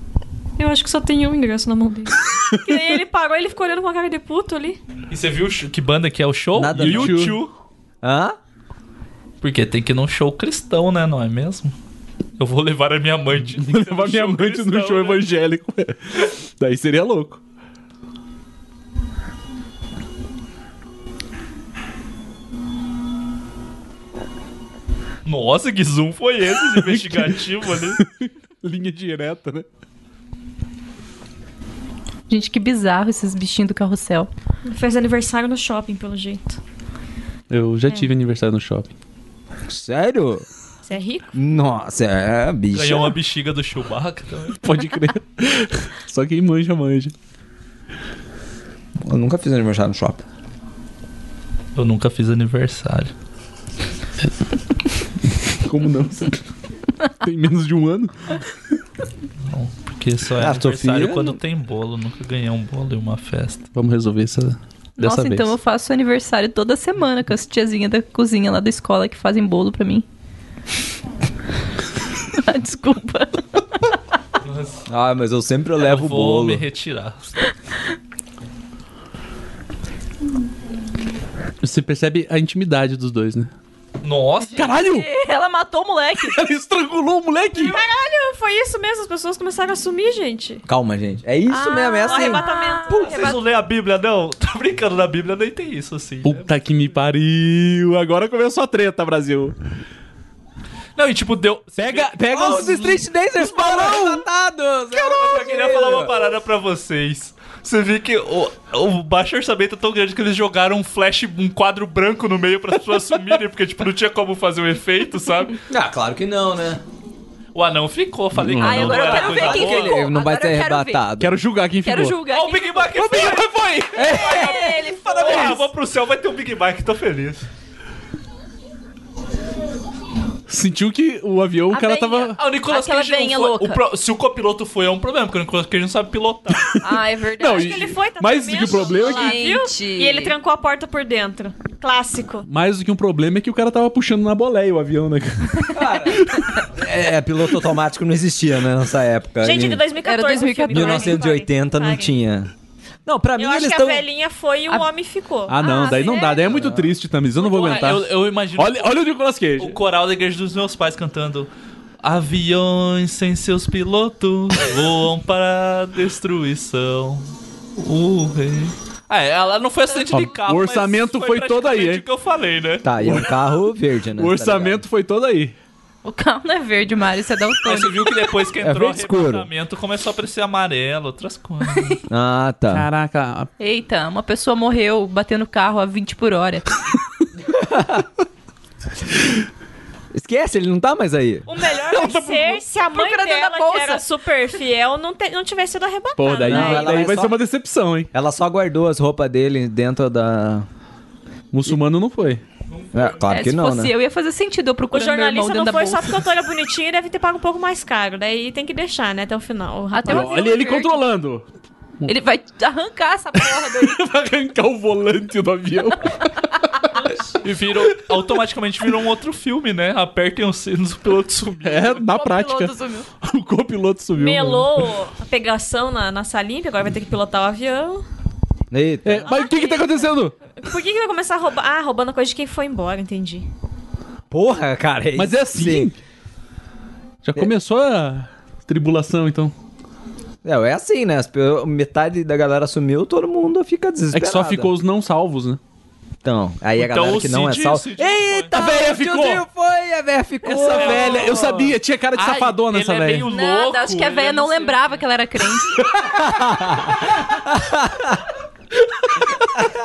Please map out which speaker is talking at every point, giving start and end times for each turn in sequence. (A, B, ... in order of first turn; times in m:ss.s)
0:00.6-0:04.8 A
0:05.1-0:07.5 B
0:06.5-0:07.3 C
0:06.7-0:07.4 D
0:08.0-0:08.4 C
0:09.4-0:11.7 B
0:12.4-0:15.2 B
0:13.5-0:17.4 D
0:25.2-0:28.0 B
0:26.7-0:29.6 D
0:32.3-0:34.3 E
0:34.6-0:36.6 A
0:37.5-0:38.9 D
0:39.7-0:40.4 C
0:40.8-0:41.3 A
0:41.3-0:43.2 C
0:42.7-0:44.6 B
0:44.6-0:47.1 D
0:49.0-0:50.2 C
0:51.7-0:53.1 B
0:55.6-0:56.4 D
0:57.2-0:58.4 D
0:59.5-1:03.7 B
1:00.4-1:01.4 C
1:03.7-1:05.5 D
1:05.0-1:10.0 E
1:12.3-1:13.4 E
1:14.4-1:14.8 B
1:14.9-1:16.6 C
1:15.8-1:17.4 B
1:21.6-1:23.5 D
1:24.0-1:24.6 B
1:24.5-1:26.4 E
1:24.6-1:25.1 D
1:26.3-1:27.8 D
1:27.6-1:30.6 A
1:30.6-1:32.9 C
1:31.5-1:33.3 E
1:32.0-1:33.4 A
1:32.9-1:36.5 B
1:36.2-1:39.5 D
1:41.0-1:42.3 B
1:41.8-1:43.0 D
1:42.3-1:46.3 C
1:44.9-1:55.6 B
1:55.7-1:56.8 C
1:57.5-2:00.0 B
1:58.3-1:59.3 D
1:58.6-2:01.0 E
1:59.1-2:01.3 C
2:01.2-2:02.2 D
2:01.8-2:03.1 E
2:02.3-2:07.4 B
2:02.9-2:04.5 D
2:03.9-2:04.7 C
2:04.0-2:05.6 E
2:05.0-2:05.6 D
2:10.5-2:12.4 D
2:11.7-2:13.8 E
2:12.4-2:16.8 B
2:16.6-2:16.9 D
2:16.8-2:17.8 E
2:17.4-2:19.5 D
2:17.5-2:22.4 A
2:18.7-2:20.3 E
2:22.4-2:26.5 D
2:25.7-2:29.8 C
2:29.4-2:32.1 A
2:30.0-2:31.2 E
2:30.7-2:32.5 C
2:33.0-2:34.0 C
2:33.4-2:35.9 A
2:35.5-2:39.8 D
2:35.6-2:36.5 E
2:36.5-2:36.9 C
2:37.4-2:39.0 B
2:39.6-2:41.5 B
2:42.0-2:52.9 B
2:50.1-2:52.0 D
2:52.8-2:54.8 C
2:53.0-2:53.3 D
2:54.2-2:55.5 D
2:56.0-2:58.1 E
2:57.6-3:02.0 B
2:58.6-2:59.5 C
3:02.1-3:02.9 C
3:02.7-3:03.5 D
3:03.6-3:06.7 E
3:07.5-3:08.0 C
3:10.1-3:11.5 C
3:11.5-3:17.1 A
3:11.8-3:12.5 D
3:12.3-3:14.0 E
3:16.2-3:18.1 D
3:16.4-3:17.4 C
3:18.1-3:20.6 C
3:21.5-3:22.4 D
3:22.7-3:23.2 B
3:22.9-3:23.9 C
3:23.3-3:26.2 E
3:24.9-3:30.5 A
3:29.9-3:31.0 E
3:30.0-3:31.4 D
3:32.0-3:34.0 E
3:33.7-3:36.9 D
3:37.4-3:42.0 B
3:41.6-3:44.7 D
3:42.0-3:43.1 E
3:44.2-3:48.0 A
3:48.7-3:49.3 C
3:49.0-3:50.4 D
3:49.2-3:53.5 A
3:54.3-3:55.9 C
3:55.2-3:56.0 D
3:57.2-3:59.5 D
4:00.4-4:04.7 C
4:04.1-4:05.6 D
4:06.2-4:11.7 C
4:06.8-4:08.5 B
4:08.5-4:09.4 D
4:10.4-4:13.3 D
4:10.6-4:15.0 B
4:13.2-4:15.9 E
4:15.8-4:16.2 D
4:16.1-4:18.2 C
4:18.8-4:19.7 D